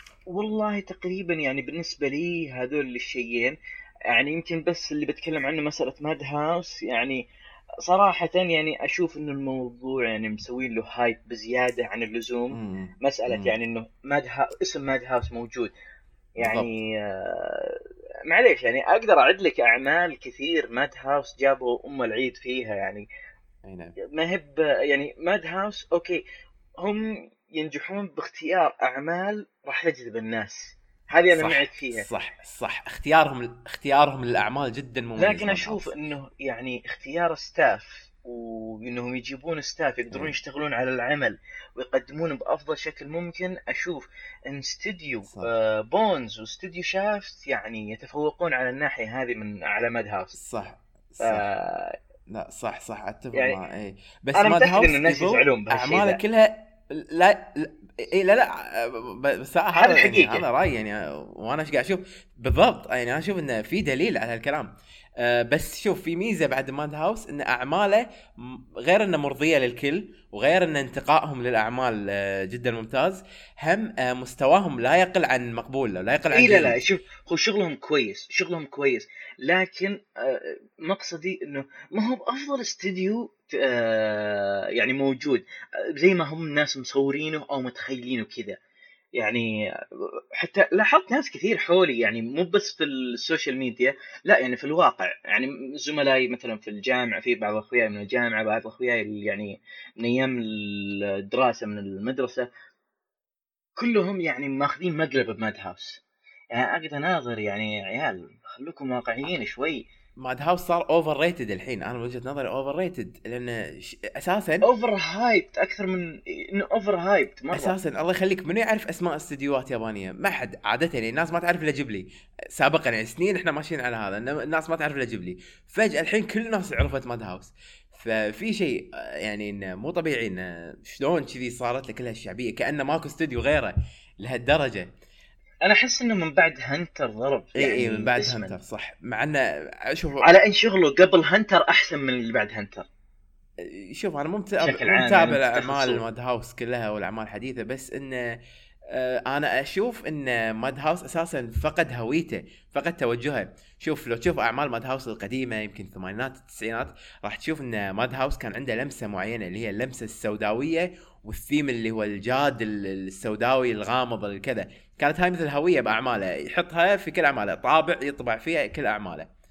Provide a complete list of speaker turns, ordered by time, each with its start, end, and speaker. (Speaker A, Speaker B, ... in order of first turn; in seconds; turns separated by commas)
Speaker A: 0.3-3.5, Speaker A: 4.1-7.2, Speaker A: 7.8-15.7, Speaker B: 12.5-13.6, Speaker B: 16.4-16.7, Speaker A: 16.4-23.1, Speaker B: 23.6-23.9, Speaker A: 24.1-26.2, Speaker A: 26.8-32.1, Speaker B: 31.4-35.9, Speaker A: 35.2-50.4, Speaker B: 50.3-51.4, Speaker A: 51.2-52.0, Speaker B: 52.3-76.8, Speaker A: 53.3-53.6, Speaker A: 54.3-56.2, Speaker A: 59.7-60.4, Speaker A: 76.3-85.4, Speaker A: 86.0-88.6, Speaker A: 89.2-102.5, Speaker A: 103.8-106.0, Speaker A: 106.5-109.9, Speaker B: 110.2-114.6, Speaker A: 114.6-117.7, Speaker B: 117.5-134.9, Speaker A: 135.6-138.5, Speaker B: 137.6-140.3, Speaker A: 140.2-142.8, Speaker B: 143.6-148.4, Speaker A: 144.6-146.0, Speaker B: 148.9-169.3